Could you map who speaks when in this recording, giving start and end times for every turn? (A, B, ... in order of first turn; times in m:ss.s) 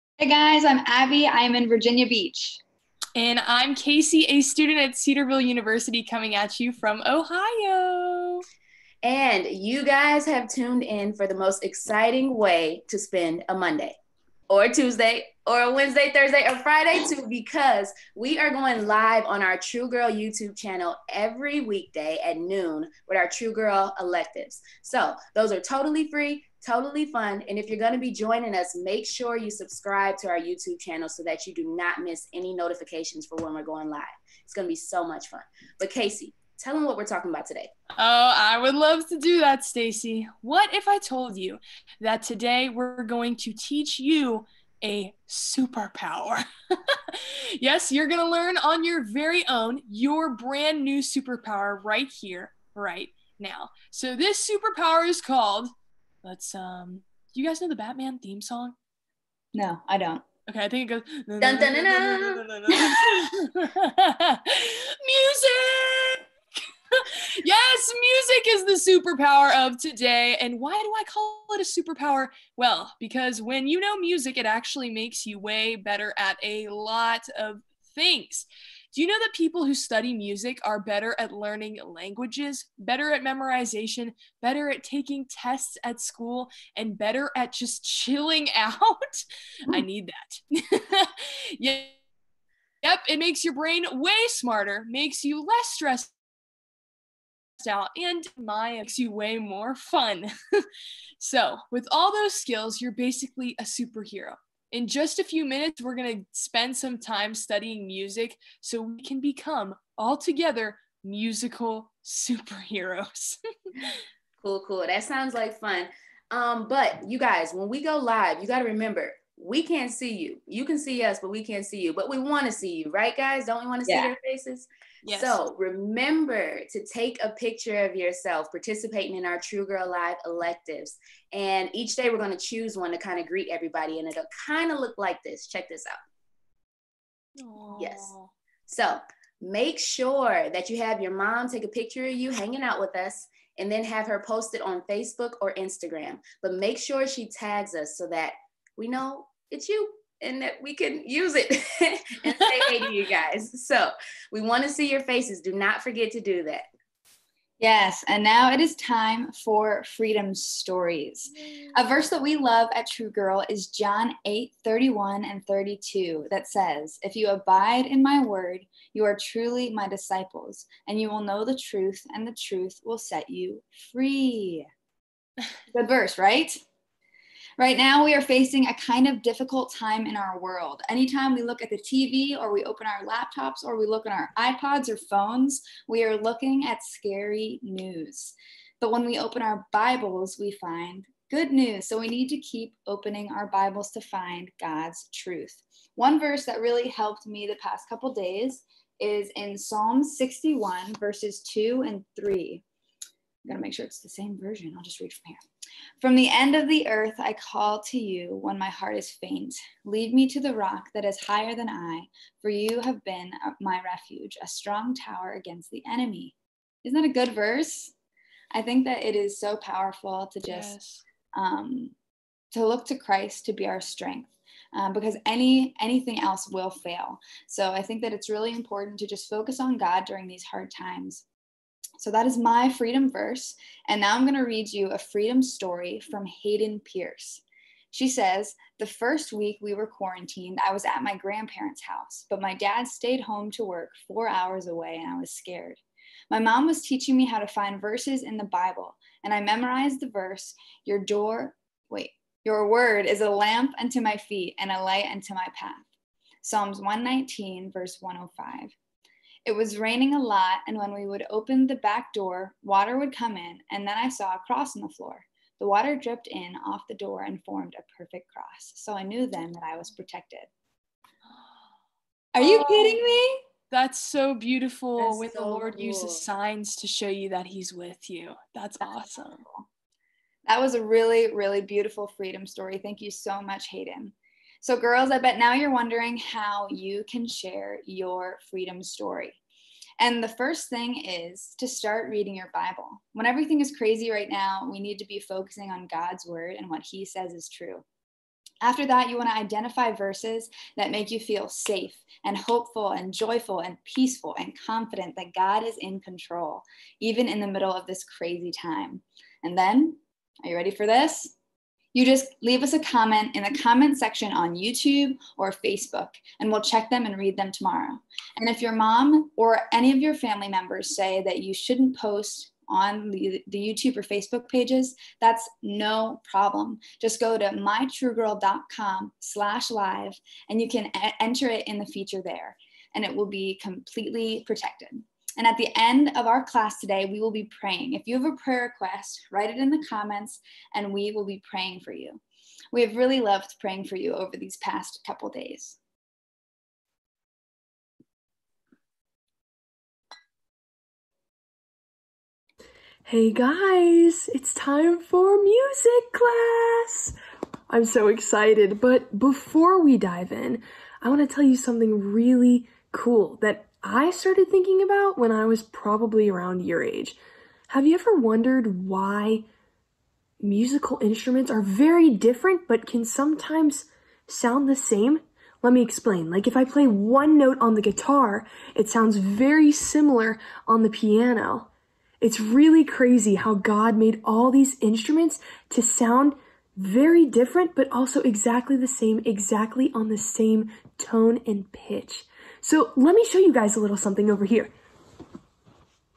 0:00.2-0:02.6 A
0:03.2-0:08.4 B
0:09.0-0:14.0 C
0:14.5-0:37.7 C
0:38.0-0:55.7 B
0:56.2-0:58.7 B
0:59.5-1:00.2 A
1:00.5-1:06.2 B
1:01.4-1:02.9 C
1:06.9-1:31.9 B
1:32.8-1:36.1 B
1:37.6-1:40.6 B
1:41.2-1:53.9 B
1:54.4-2:16.0 C
2:03.8-2:04.1 A
2:05.0-2:05.4 B
2:17.4-2:18.3 B
2:17.8-2:18.1 C
2:18.7-2:36.6 C
2:37.6-2:54.7 A
2:55.7-2:56.6 A
2:57.6-3:22.6 A
3:23.4-3:25.4 A
3:26.0-3:37.9 A
3:38.5-3:40.8 A
3:40.5-3:41.0 B
3:41.3-3:41.9 A
3:42.5-3:51.2 A
3:52.0-4:15.8 A
4:16.4-4:18.7 A
4:19.4-4:30.5 A
4:32.3-4:33.4 A
4:32.4-4:33.1 B
4:33.7-4:39.4 B
4:35.0-4:36.2 C
4:38.8-4:39.6 A
4:40.4-4:49.4 A
4:50.0-4:57.8 A
4:58.6-5:11.3 A
5:11.9-5:42.2 A
5:42.7-5:45.8 A
5:53.0-5:57.1 B
5:57.7-6:07.2 B
6:07.7-6:09.4 B
6:10.4-6:21.7 B
6:22.2-6:34.7 B